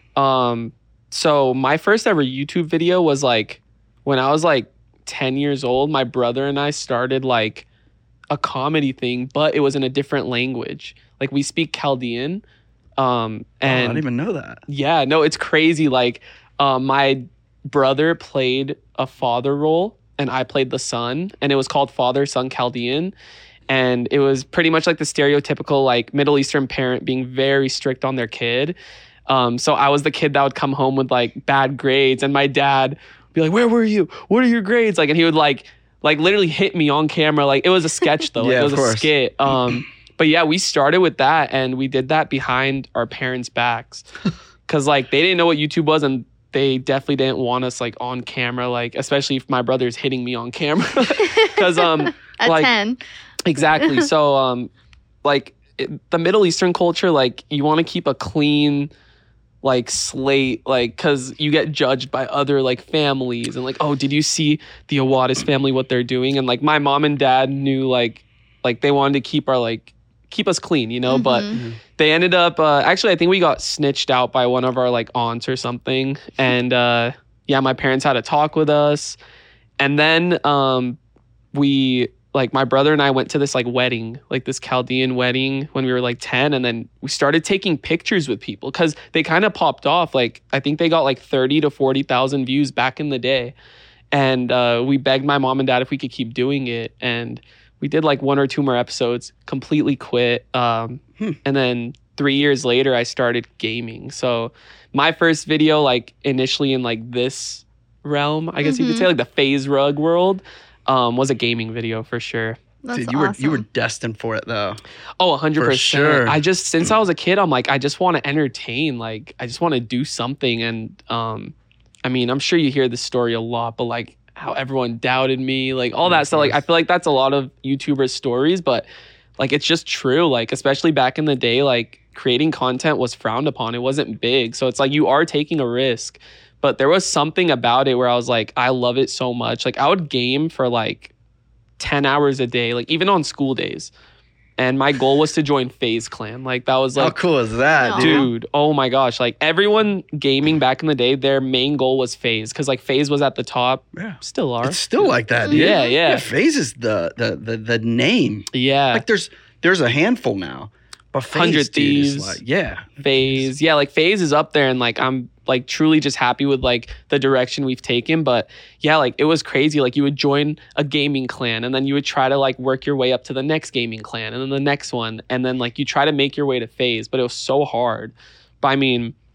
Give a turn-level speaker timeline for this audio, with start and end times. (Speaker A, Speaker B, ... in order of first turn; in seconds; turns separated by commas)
Speaker A: 0.1-7.7, Speaker A: 8.3-12.4, Speaker A: 13.0-14.0, Speaker B: 13.6-14.6, Speaker A: 14.7-23.1, Speaker A: 23.7-28.8, Speaker A: 29.3-44.0, Speaker B: 38.4-39.1, Speaker A: 44.7-52.7, Speaker C: 51.2-53.0, Speaker A: 53.4-54.7, Speaker C: 53.8-54.1, Speaker A: 55.2-58.9, Speaker A: 59.6-79.2, Speaker C: 71.1-71.6, Speaker B: 71.5-71.8, Speaker A: 79.8-81.0, Speaker A: 81.5-93.5, Speaker A: 94.1-112.6, Speaker C: 108.6-109.1, Speaker C: 112.8-113.6, Speaker B: 112.9-114.8, Speaker A: 115.2-128.8, Speaker B: 115.6-116.9, Speaker B: 126.0-126.6, Speaker A: 129.4-141.1, Speaker A: 141.8-143.9, Speaker A: 144.6-147.2, Speaker B: 147.0-148.3, Speaker C: 147.7-148.3, Speaker A: 148.0-156.3, Speaker B: 153.9-163.5, Speaker C: 155.5-155.9, Speaker A: 158.5-159.0, Speaker A: 161.3-162.4, Speaker A: 163.0-179.1